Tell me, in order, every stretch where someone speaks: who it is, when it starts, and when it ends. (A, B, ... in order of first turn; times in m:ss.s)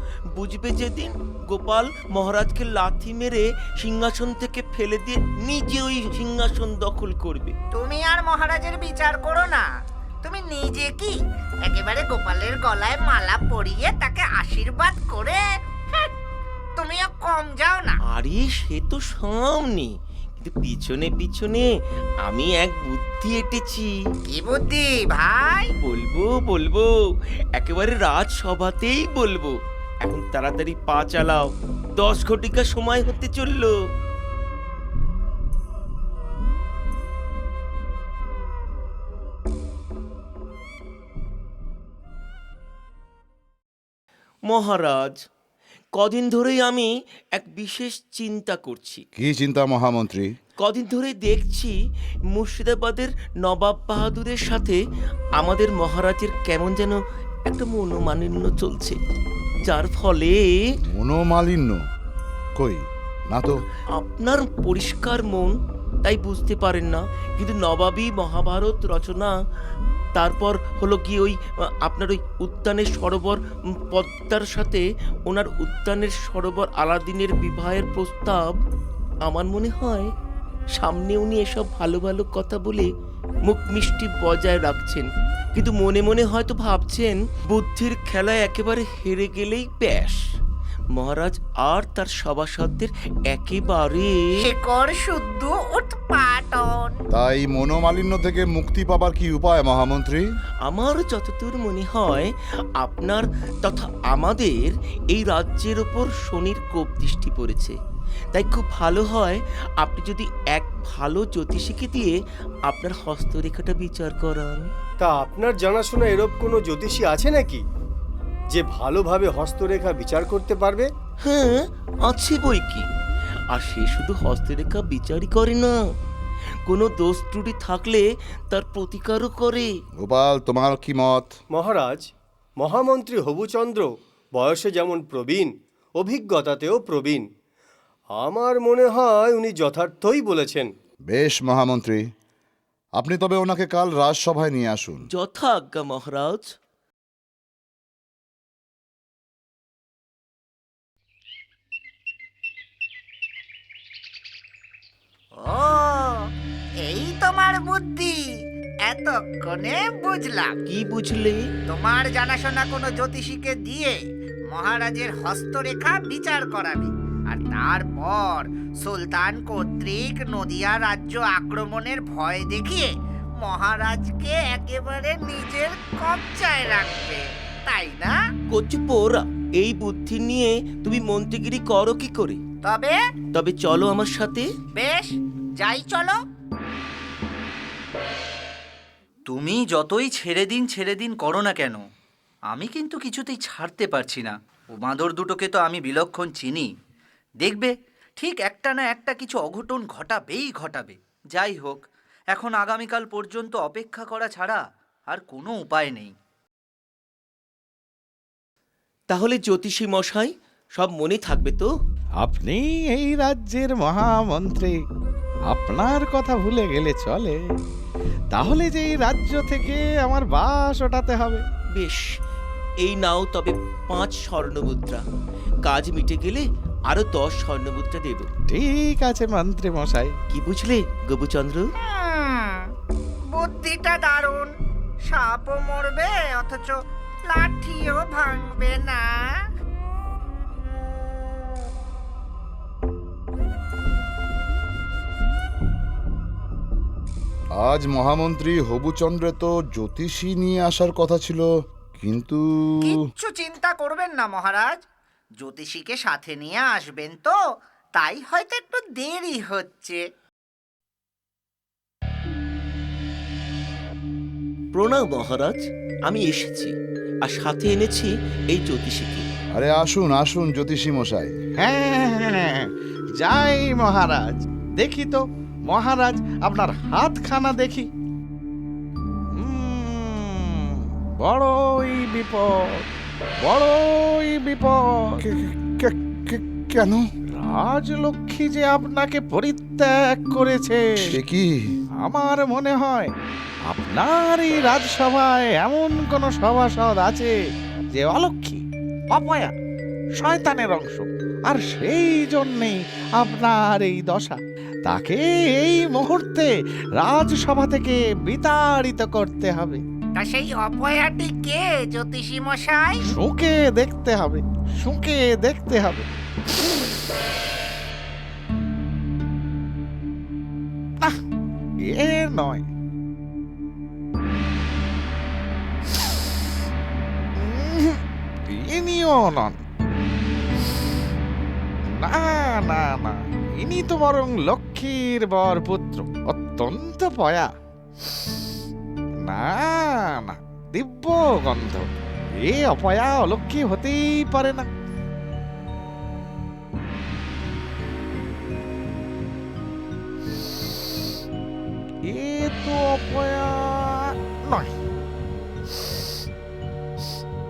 0:00.3-0:07.6 A
0:07.7-0:09.6 B
0:10.2-0:11.2 B
0:11.7-0:15.4 B
0:16.8-0:18.0 B
0:18.1-0:19.9 A
0:20.4-0:21.7 A
0:22.2-0:23.9 A
0:24.3-0:25.7 B
0:25.8-0:26.9 A
0:27.6-0:29.5 A
0:30.0-0:33.7 A
0:44.5-0:45.1 A
0:46.0-0:49.0 A
0:49.2-0:50.3 C
0:50.6-0:51.7 A
0:52.3-0:54.8 A
0:55.4-0:59.0 A
0:59.6-1:00.4 A
1:00.9-1:01.8 C
1:02.6-1:03.6 C
1:03.9-1:05.5 A
1:06.0-1:09.3 A
1:10.2-1:13.4 A
1:13.9-1:18.6 A
1:19.3-1:20.1 A
1:20.8-1:22.9 A
1:23.4-1:30.2 A
1:31.0-1:34.2 A
1:34.4-1:37.0 B
1:37.1-1:40.2 C
1:40.6-1:42.3 A
1:42.8-1:47.8 A
1:48.3-1:52.1 A
1:52.7-1:54.6 A
1:55.0-1:57.6 D
1:58.5-2:00.9 D
2:01.2-2:01.6 A
2:02.1-2:02.9 A
2:03.5-2:05.7 A
2:06.7-2:09.7 A
2:10.0-2:11.3 C
2:11.5-2:12.0 D
2:12.6-2:17.2 D
2:18.1-2:20.7 D
2:21.1-2:22.0 C
2:23.0-2:25.1 C
2:25.1-2:26.5 A
2:35.4-2:36.2 B
2:36.8-2:38.2 B
2:38.9-2:40.6 B
2:40.7-2:41.4 A
2:41.7-2:44.0 B
2:44.5-2:52.9 B
2:53.4-2:58.1 B
2:58.5-3:02.4 A
3:02.6-3:03.0 B
3:03.3-3:04.4 A
3:04.8-3:06.2 B
3:09.3-3:11.7 E
3:12.8-3:14.3 E
3:14.8-3:16.7 E
3:18.2-3:20.9 B
3:18.7-3:20.5 E
3:21.4-3:21.8 E
3:22.4-3:22.7 B
3:22.8-3:23.3 E
3:23.3-3:24.1 B
3:23.9-3:24.6 E
3:25.1-3:25.9 E
3:25.6-3:26.1 B
3:29.1-3:31.7 A
3:32.2-3:34.8 F
3:35.5-3:37.4 F
3:38.3-3:41.4 F
3:41.7-3:42.1 A
3:42.8-3:45.0 A
3:45.6-3:48.3 A
3:48.5-3:50.2 F
3:50.3-3:51.7 A
3:51.8-3:52.7 B
3:53.3-3:54.5 B
3:55.1-3:56.7 B
3:57.3-3:59.4 B
4:07.6-4:11.5 C
4:12.0-4:12.9 C
4:12.8-4:14.8 B
4:15.4-4:17.4 B
4:18.0-4:20.0 B
4:24.7-4:26.7 A
4:27.2-4:29.2 A
4:29.5-4:31.3 C
4:31.6-4:37.9 F
4:39.3-4:42.8 F
4:43.4-4:45.2 F
4:45.2-4:47.0 C
4:47.4-4:51.2 F
4:51.0-4:51.7 C
4:52.0-4:53.1 F
4:53.7-4:57.4 F
4:57.9-4:59.5 F
5:00.2-5:09.8 F
5:10.2-5:13.0 B
5:13.0-5:16.1 F
5:21.8-5:22.6 F
5:27.4-5:29.6 F
5:31.9-5:37.5 F
5:39.2-5:44.7 F
5:52.1-5:54.7 F